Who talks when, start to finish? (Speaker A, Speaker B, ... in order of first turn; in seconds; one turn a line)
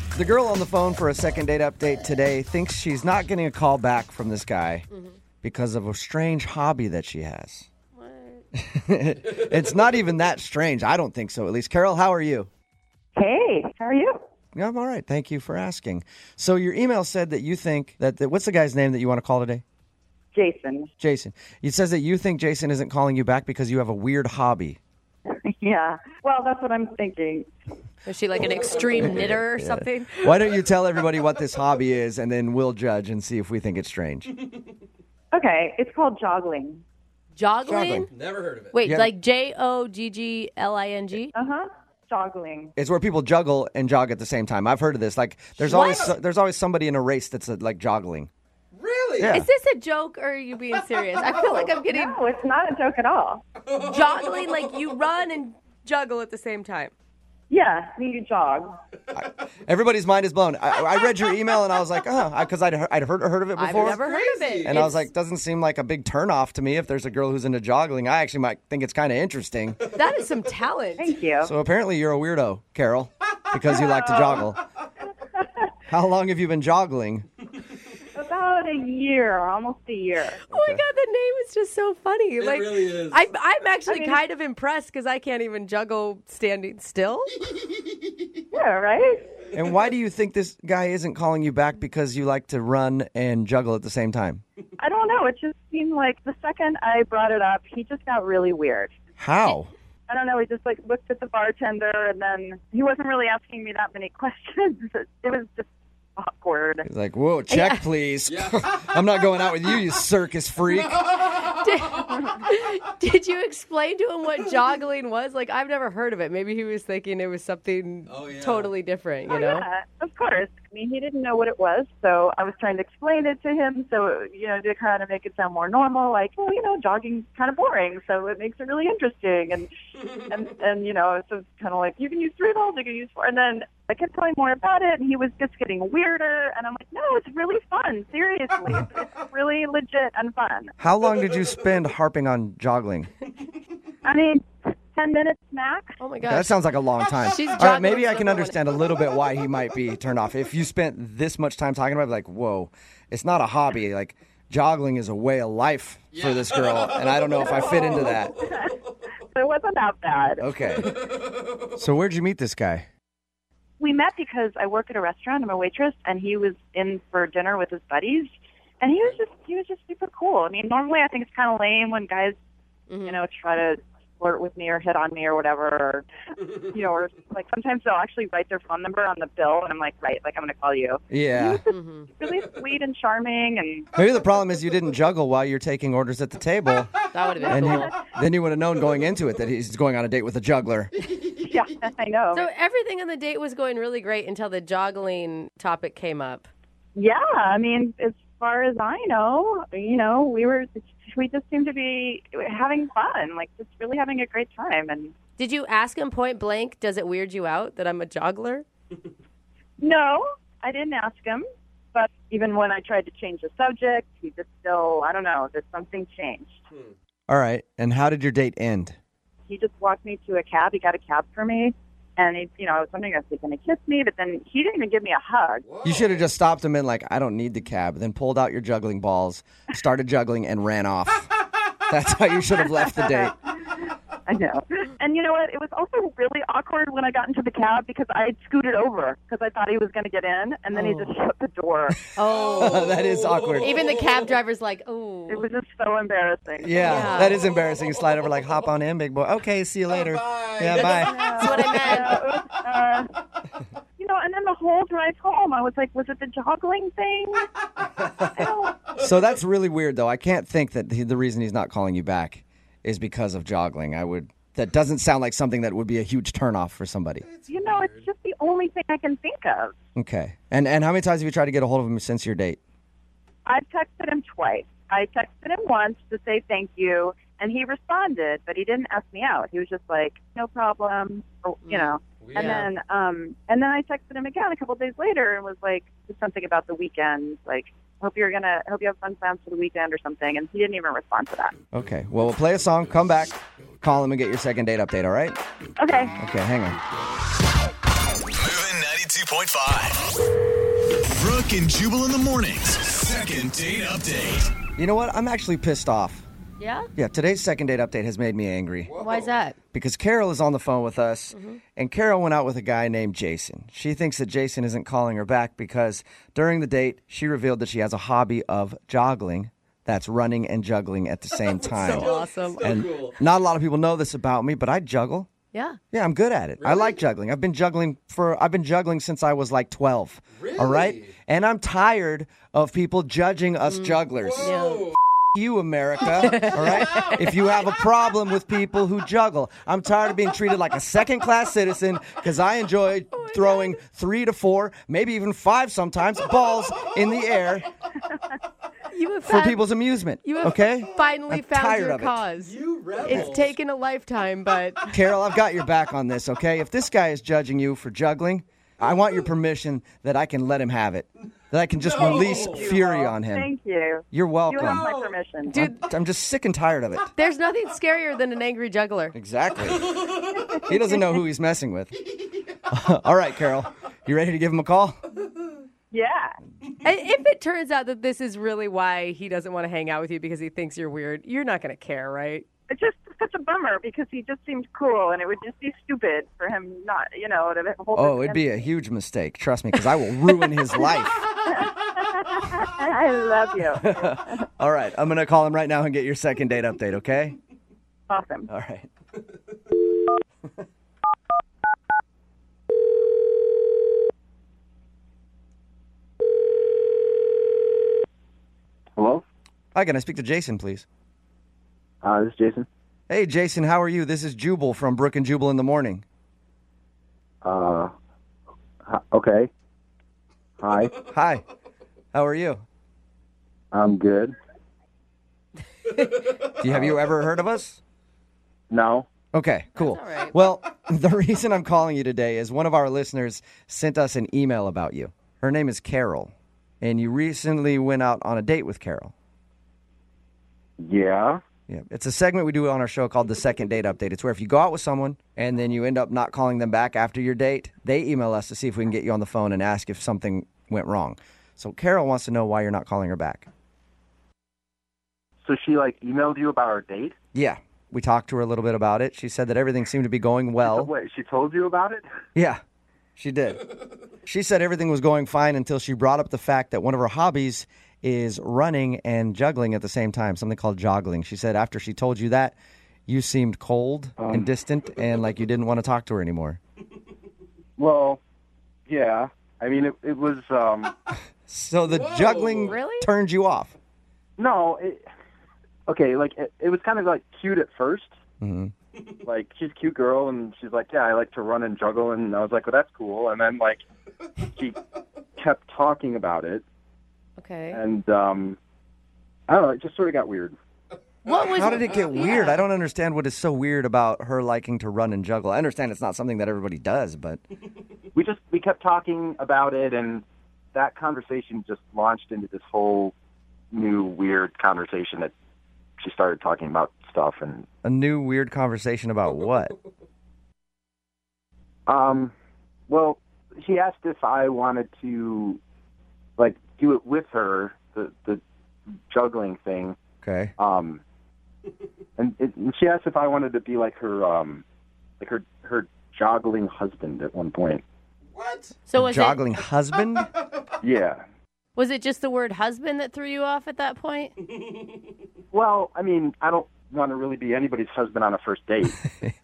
Speaker A: 0.1-4.8
Speaker B: 4.9-5.2
Speaker A: 5.4-7.7
Speaker B: 7.9-8.4
Speaker A: 8.5-12.5
Speaker C: 13.2-14.2
Speaker A: 14.5-19.6
Speaker C: 20.3-20.9
Speaker A: 21.0-24.8
Speaker C: 25.3-27.5
Speaker B: 28.0-30.3
Speaker A: 29.0-34.3
Speaker C: 35.3-36.8
Speaker B: 37.3-38.1
Speaker A: 37.6-38.1
Speaker D: 38.2-38.5
Speaker B: 38.7-41.3
Speaker A: 38.8-39.1
Speaker C: 41.3-42.7
Speaker A: 42.8-48.3
Speaker B: 45.6-46.1
Speaker D: 48.7-49.2
Speaker A: 49.2-49.5
Speaker B: 49.3-52.1
Speaker C: 51.4-53.4
Speaker B: 53.7-56.9
Speaker C: 57.5-58.7
Speaker A: 59.1-64.0
Speaker B: 63.5-65.1
Speaker D: 64.1-64.4
Speaker A: 64.6-69.9
Speaker B: 69.9-71.1
Speaker C: 71.0-71.5
Speaker A: 71.4-74.6
Speaker C: 73.7-74.4
Speaker C: 75.3-75.6
Speaker A: 75.9-77.2
Speaker C: 78.1-80.4
Speaker B: 80.4-87.4
Speaker A: 80.5-80.8
Speaker D: 82.4-83.1
Speaker C: 83.9-84.2
Speaker C: 88.5-89.4
Speaker A: 89.5-94.4
Speaker C: 94.8-98.9
Speaker A: 99.2-99.7
Speaker C: 100.1-106.9
Speaker A: 106.8-111.1
Speaker B: 107.5-107.8
Speaker B: 111.4-119.6
Speaker D: 118.1-118.6
Speaker C: 119.3-140.7
Speaker A: 140.8-143.1
Speaker C: 144.0-145.9
Speaker B: 146.0-146.6
Speaker A: 146.2-158.4
Speaker B: 147.2-148.6
Speaker C: 157.4-160.9
Speaker A: 160.4-160.9
Speaker A: 161.8-162.9
Speaker C: 163.8-168.3
Speaker C: 168.8-172.3
Speaker B: 172.9-173.2
Speaker C: 173.0-183.9
Speaker A: 181.1-181.6
Speaker B: 181.7-182.1
Speaker A: 183.9-186.9
Speaker B: 187.1-187.9
Speaker C: 187.4-187.9
Speaker A: 187.5-190.9
Speaker C: 191.2-192.5
Speaker B: 192.3-196.5
Speaker C: 196.9-205.1
Speaker B: 205.4-208.7
Speaker C: 209.8-216.6
Speaker A: 217.3-218.9
Speaker C: 219.5-225.7
Speaker A: 225.8-231.3
Speaker A: 231.9-233.3
Speaker C: 232.7-242.0
Speaker B: 240.7-241.2
Speaker B: 242.2-243.0
Speaker A: 242.6-243.8
Speaker B: 243.6-245.4
Speaker C: 245.3-247.3
Speaker A: 246.6-251.7
Speaker B: 246.8-247.4
Speaker C: 250.8-253.1
Speaker B: 251.1-252.2
Speaker C: 254.0-257.5
Speaker C: 258.3-258.9
Speaker A: 259.0-267.2
Speaker C: 267.5-269.7
Speaker A: 269.9-272.6
Speaker C: 273.4-291.5
Speaker B: 281.6-282.6
Speaker A: 291.7-295.4
Speaker C: 295.8-296.1
Speaker A: 296.2-296.8
Speaker E: 298.4-300.0
Speaker E: 301.1-304.5
Speaker A: 304.8-306.2
Speaker B: 306.6-306.9
Speaker A: 306.9-309.1
Speaker B: 309.0-309.6
Speaker A: 309.7-325.3
Speaker B: 311.3-311.6
Speaker B: 321.8-322.8
Speaker D: 322.5-323.0
Speaker B: 325.5-325.8
Speaker A: 325.9-334.6
Speaker B: 333.7-334.9
Speaker A: 335.3-347.7
Speaker B: 336.2-337.2
Speaker B: 343.1-343.8
Speaker B: 348.9-349.6
Speaker A: 349.2-352.2
Speaker B: 350.2-355.0
Speaker D: 352.5-353.0
Speaker A: 353.0-353.5
Speaker A: 354.9-363.5
Speaker C: 361.9-365.6
Speaker A: 364.1-364.9
Speaker B: 365.5-365.8
Speaker A: 365.5-367.1
Speaker B: 367.1-369.1
Speaker A: 369.1-372.0
Speaker C: 370.3-370.6
Speaker A: 372.7-375.0
Speaker C: 375.9-376.4
Speaker B: 376.8-382.4
Speaker C: 382.7-388.5
Speaker A: 387.9-391.2
Speaker C: 391.4-394.4
Speaker A: 393.8-397.4
Speaker C: 398.1-398.5
Speaker A: 398.5-398.9
Speaker F: 409.0-409.2
Speaker A: 409.7-410.8
Speaker F: 412.0-412.6
Speaker A: 413.1-416.0
Speaker F: 417.4-417.9
Speaker F: 418.9-419.5
Speaker F: 420.6-421.0
Speaker A: 421.1-421.4
Speaker A: 422.1-422.6
Speaker F: 423.7-424.3
Speaker A: 426.4-427.8
Speaker F: 428.7-429.1
Speaker A: 429.3-439.1
Speaker B: 429.8-430.4
Speaker F: 440.8-441.4
Speaker A: 441.7-453.5
Speaker F: 455.4-457.1
Speaker A: 457.3-460.9
Speaker F: 460.6-462.0
Speaker A: 462.3-462.6
Speaker A: 463.1-463.7
Speaker A: 464.2-472.6
Speaker A: 473.1-476.6
Speaker F: 477.8-478.2
Speaker F: 478.9-480.9
Speaker A: 481.5-483.8
Speaker B: 482.6-483.1
Speaker F: 484.4-485.0
Speaker F: 485.9-488.1
Speaker A: 488.4-488.7
Speaker F: 489.2-493.8
Speaker F: 494.4-494.8
Speaker F: 495.4-496.6
Speaker B: 497.4-497.8
Speaker F: 497.7-498.6
Speaker F: 499.5-500.5
Speaker B: 501.2-502.6
Speaker A: 501.4-507.4
Speaker F: 508.1-510.2
Speaker F: 510.7-513.1
Speaker F: 513.7-515.3
Speaker F: 516.0-517.6
Speaker A: 517.8-519.8
Speaker F: 521.9-522.3
Speaker F: 522.9-525.6
Speaker F: 526.4-528.4
Speaker F: 529.1-530.0
Speaker A: 530.2-530.5
Speaker F: 530.6-531.0
Speaker F: 532.2-534.6
Speaker F: 535.2-537.8
Speaker B: 538.9-539.4
Speaker A: 538.9-540.3
Speaker F: 540.8-541.2
Speaker B: 541.7-544.3
Speaker F: 545.5-548.9